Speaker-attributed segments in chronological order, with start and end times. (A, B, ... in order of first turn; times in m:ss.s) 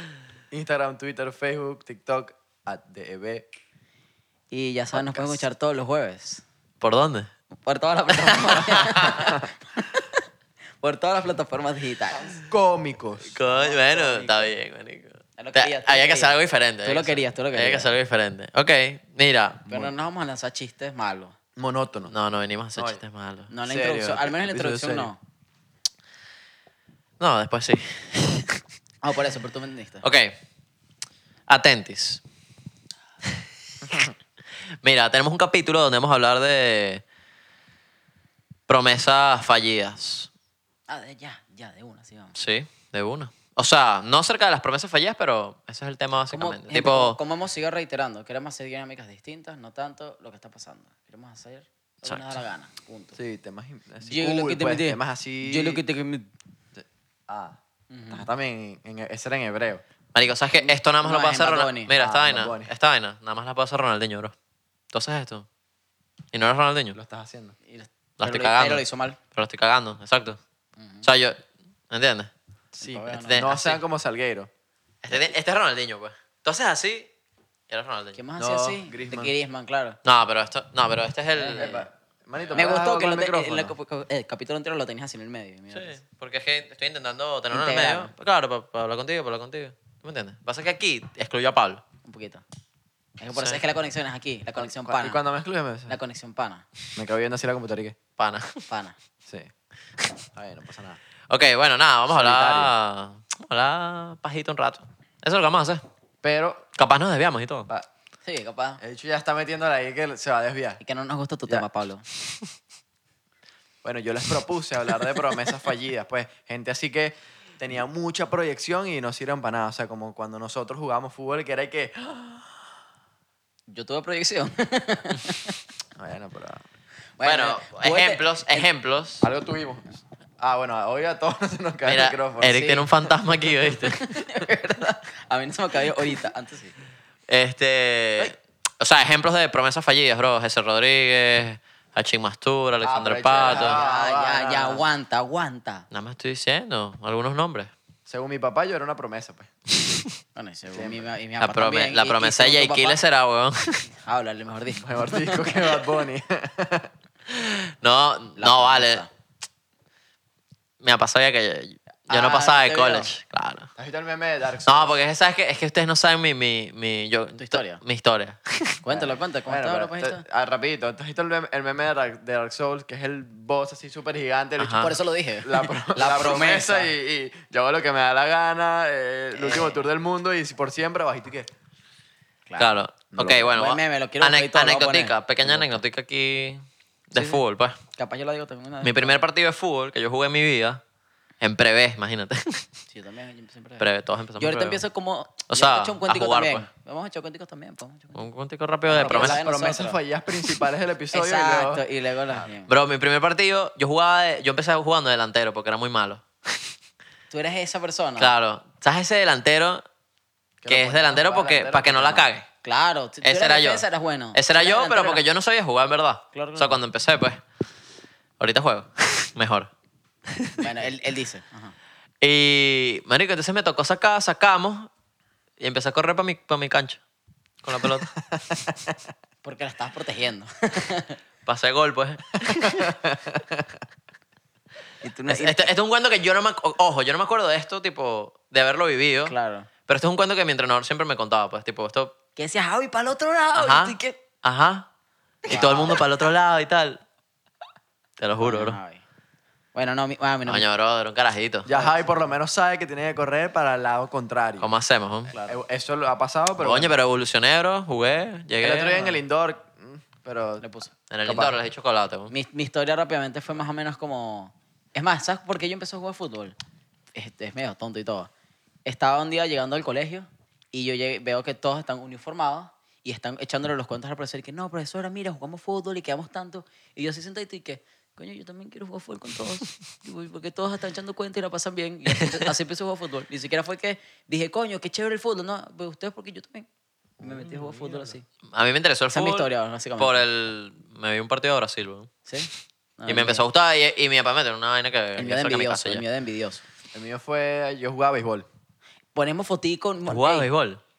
0:00.5-0:03.4 A
0:04.5-0:06.4 B
0:04.9-0:05.4 A
0:06.8-0:07.3 C
0:07.6-0:10.2 B
0:08.2-0:09.3 C
0:10.8-0:12.4 B
0:12.3-0:13.3 A
0:13.3-0:19.7 C
0:13.4-0:14.5 B
0:15.4-0:17.9 B
0:19.7-0:19.9 A
0:19.7-0:21.4 B
0:21.6-0:22.1 A
0:22.1-0:23.5 C
0:22.8-0:23.0 A
0:23.5-0:25.2 B
0:23.6-0:25.1 A
0:27.2-0:28.6 C
0:29.0-0:30.0 B
0:30.0-0:30.3 C
0:31.5-0:32.2 C
0:34.8-0:37.0 C
0:38.7-0:40.3 C
0:40.9-0:42.3 B
0:42.4-0:47.2 C
0:46.3-0:53.2 B
0:52.0-0:52.4 C
0:53.2-0:55.8 A
0:54.0-0:56.3 B
0:56.7-0:57.6 A
0:57.9-0:58.3 B
0:58.1-0:59.8 A
1:00.1-1:04.3 C
1:00.6-1:01.9 B
1:02.0-1:02.7 A
1:04.9-1:05.4 C
1:06.3-1:07.0 C
1:06.9-1:07.6 A
1:07.7-1:09.2 B
1:08.2-1:10.4 C
1:10.8-1:11.0 B
1:11.0-1:11.4 C
1:11.9-1:12.3 C
1:12.7-1:14.5 A
1:12.8-1:13.4 B
1:13.2-1:13.8 C
1:15.0-1:17.1 C
1:17.7-1:18.2 C
1:18.1-1:20.0 B
1:18.4-1:19.3 A
1:20.0-1:21.7 C
1:21.3-1:21.9 B
1:21.4-1:23.7 A
1:22.5-1:26.0 B
1:25.7-1:31.8 C
1:27.5-1:28.1 B
1:32.0-1:32.4 B
1:33.2-1:35.2 B
1:33.3-1:33.6 C
1:34.6-1:36.0 A
1:35.9-1:36.6 B
1:37.0-1:38.0 A
1:38.2-1:38.6 C
1:38.7-1:39.0 B
1:39.3-1:39.5 A
1:40.3-1:41.0 A
1:41.3-1:45.8 C
1:42.1-1:42.7 A
1:46.2-1:46.7 A
1:46.8-1:47.7 C
1:48.2-1:48.8 B
1:48.8-1:50.8 A
1:50.8-1:52.0 B
1:53.8-2:02.6 A
2:03.7-2:05.6 B
2:05.9-2:06.6 A
2:07.2-2:08.7 B
2:07.2-2:09.3 C
2:09.2-2:12.8 A
2:11.8-2:14.0 C
2:12.6-2:12.8 B
2:13.7-2:16.8 B
2:17.3-2:23.8 C
2:22.8-2:24.8 A
2:23.4-2:25.8 B
2:25.9-2:27.7 C
2:28.0-2:29.5 A
2:29.8-2:30.1 C
2:30.3-2:33.0 B
2:30.7-2:31.1 A
2:31.4-2:33.9 C
2:34.0-2:35.8 B
2:34.8-2:36.9 A
2:37.3-2:39.0 C
2:38.4-2:39.1 B
2:40.8-2:43.7 C
2:42.1-2:43.1 A
2:43.8-2:45.0 A
2:44.6-2:48.8 C
2:47.4-2:47.8 B
2:48.8-2:50.2 B
2:48.9-3:01.5 A
2:54.6-2:54.9 C
2:54.8-2:56.9 B
2:59.3-2:59.8 B
3:02.5-3:05.8 B
3:02.6-3:07.8 C
3:07.1-3:07.4 B
3:08.0-3:09.2 B
3:08.8-3:10.8 C
3:11.4-3:12.6 C
3:12.9-3:13.8 B
3:13.8-3:14.8 C
3:14.4-3:18.2 B
3:15.5-3:16.6 C
3:18.1-3:19.4 C
3:18.9-3:20.0 B
3:18.9-3:21.8 A
3:21.1-3:22.7 B
3:22.7-3:26.7 C
3:27.3-3:28.3 B
3:28.2-3:29.8 C
3:30.6-3:32.3 A
3:30.7-3:32.4 C
3:32.6-3:35.2 B
3:33.2-3:37.4 C
3:36.3-3:36.7 B
3:38.4-3:39.7 C
3:40.3-3:40.6 C
3:40.6-3:41.7 B
3:42.2-3:44.9 C
3:45.6-3:47.0 C
3:47.6-3:48.1 C
3:48.3-3:49.0 A
3:49.4-3:51.2 B
3:51.4-3:53.0 C
3:52.4-3:53.8 A
3:55.0-3:55.7 B
3:55.3-3:59.3 C
3:59.2-3:59.7 B
3:59.9-4:02.1 C
4:02.4-4:04.2 B
4:03.5-4:04.9 C
4:05.4-4:07.0 C
4:05.5-4:06.0 B
4:08.2-4:08.8 C
4:08.4-4:09.0 B
4:09.7-4:10.6 B
4:10.4-4:11.7 C
4:11.6-4:14.7 A
4:11.7-4:12.1 B
4:14.6-4:15.3 C
4:15.3-4:15.6 B
4:15.4-4:17.0 A
4:16.6-4:19.0 C
4:18.6-4:20.6 A
4:18.9-4:19.2 B
4:20.6-4:20.9 B
4:21.1-4:22.3 C
4:21.2-4:21.6 A
4:22.3-4:26.6 B
4:27.1-4:28.3 B
4:28.8-4:46.7 B
4:42.2-4:42.5 C
4:47.2-4:48.2 A
4:47.2-4:48.2 B
4:48.5-4:52.2 C
4:49.1-4:50.2 B
4:52.3-4:53.4 B
4:53.1-4:56.0 C
4:55.2-4:56.6 B
4:56.9-4:58.5 A
4:59.1-5:00.5 B
5:00.0-5:00.8 C